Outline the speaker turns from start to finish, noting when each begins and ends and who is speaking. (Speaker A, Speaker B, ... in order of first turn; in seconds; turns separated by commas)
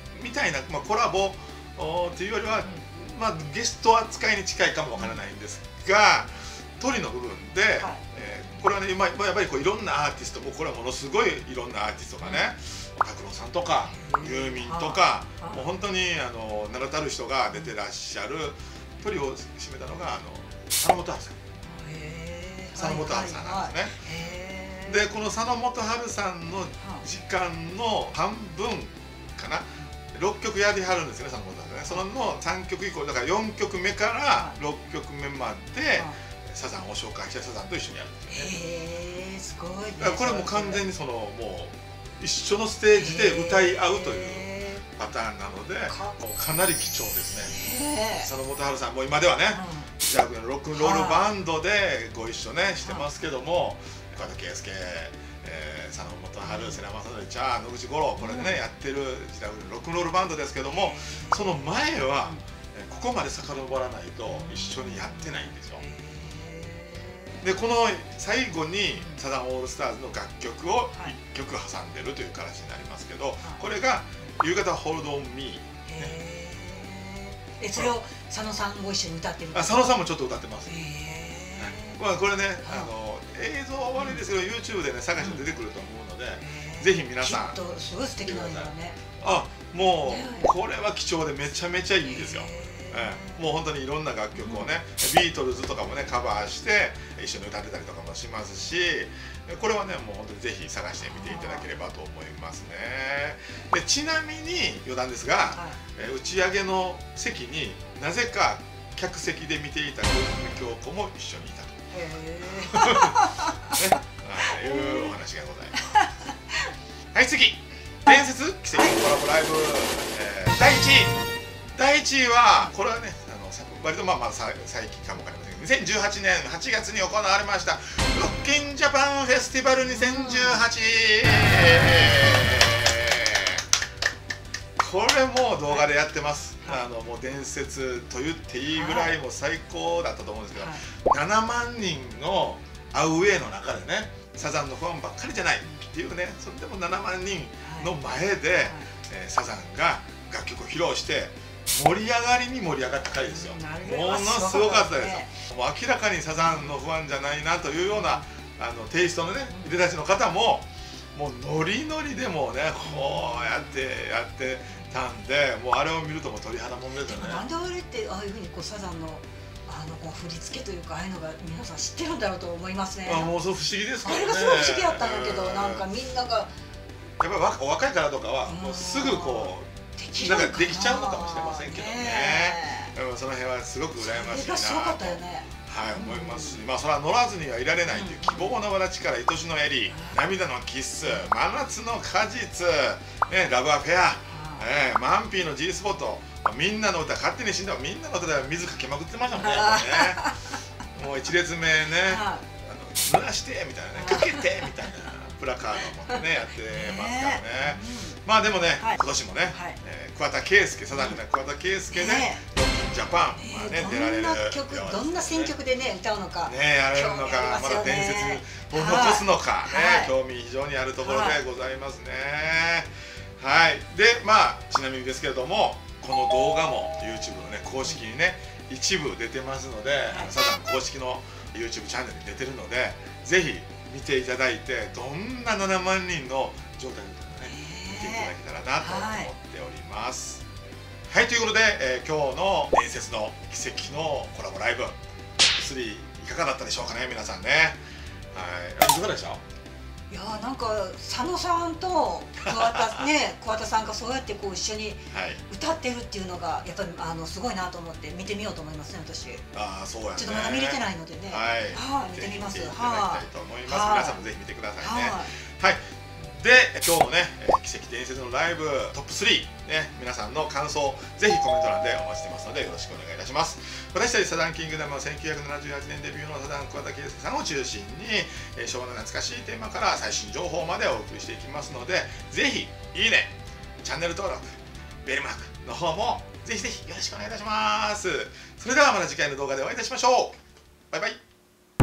Speaker A: 0.1-21.4, Speaker B: 12.2-12.5, Speaker B: 13.9-15.7, Speaker B: 21.6-25.1, Speaker A: 22.8-24.0, Speaker A: 24.9-38.5, Speaker B: 26.8-27.1, Speaker B: 38.3-40.8, Speaker A: 40.0-47.6, Speaker B: 42.9-44.8, Speaker B: 45.9-46.1, Speaker B: 47.5-48.3, Speaker A: 48.2-65.8, Speaker B: 49.5-49.9, Speaker B: 50.7-51.3, Speaker B: 56.4-56.8, Speaker B: 58.2-58.6, Speaker B: 60.7-61.6, Speaker B: 64.3-67.5, Speaker A: 67.4-76.2, Speaker B: 68.9-69.2, Speaker B: 75.9-79.9, Speaker A: 79.5-80.7, Speaker B: 80.7-82.0, Speaker A: 81.6-87.6, Speaker B: 82.6-82.9, Speaker B: 83.9-84.2, Speaker B: 85.2-85.5, Speaker B: 86.4-89.0, Speaker A: 88.2-111.8, Speaker B: 90.0-90.5, Speaker B: 92.0-93.5, Speaker B: 94.3-94.7, Speaker B: 101.0-101.7, Speaker B: 105.5-105.8, Speaker B: 111.9-113.7, Speaker A: 112.5-116.0, Speaker B: 114.5-115.1, Speaker B: 115.9-116.7, Speaker A: 117.1-121.2, Speaker A: 121.7-133.6, Speaker B: 129.9-130.6, Speaker A: 134.8-167.5, Speaker B: 138.7-139.1, Speaker B: 140.5-140.8, Speaker B: 147.6-147.9, Speaker B: 148.6-148.9, Speaker B: 153.3-155.3, Speaker B: 156.4-156.8, Speaker B: 157.9-158.2, Speaker B: 162.8-163.8, Speaker B: 167.0-173.3, Speaker A: 173.1-175.8, Speaker B: 174.0-176.5, Speaker A: 177.2-200.3, Speaker B: 178.4-182.9, Speaker B: 184.0-186.6, Speaker B: 187.9-188.6, Speaker B: 189.9-190.2, Speaker B: 194.2-194.7, Speaker B: 199.4-200.5, Speaker A: 200.9-215.6, Speaker B: 202.0-202.4, Speaker B: 204.0-204.7, Speaker B: 206.1-208.2, Speaker B: 208.8-209.8, Speaker B: 210.9-211.2, Speaker B: 211.9-212.4, Speaker B: 213.4-220.1, Speaker A: 216.4-240.4, Speaker B: 221.0-221.4, Speaker B: 237.5-239.3, Speaker A: 241.1-247.8, Speaker A: 248.3-249.4, Speaker B: 250.1-259.4, Speaker A: 252.5-253.0, Speaker A: 255.1-255.4, Speaker A: 259.5-290.4, Speaker B: 260.1-264.2, Speaker B: 264.8-265.3, Speaker A: 290.9-291.2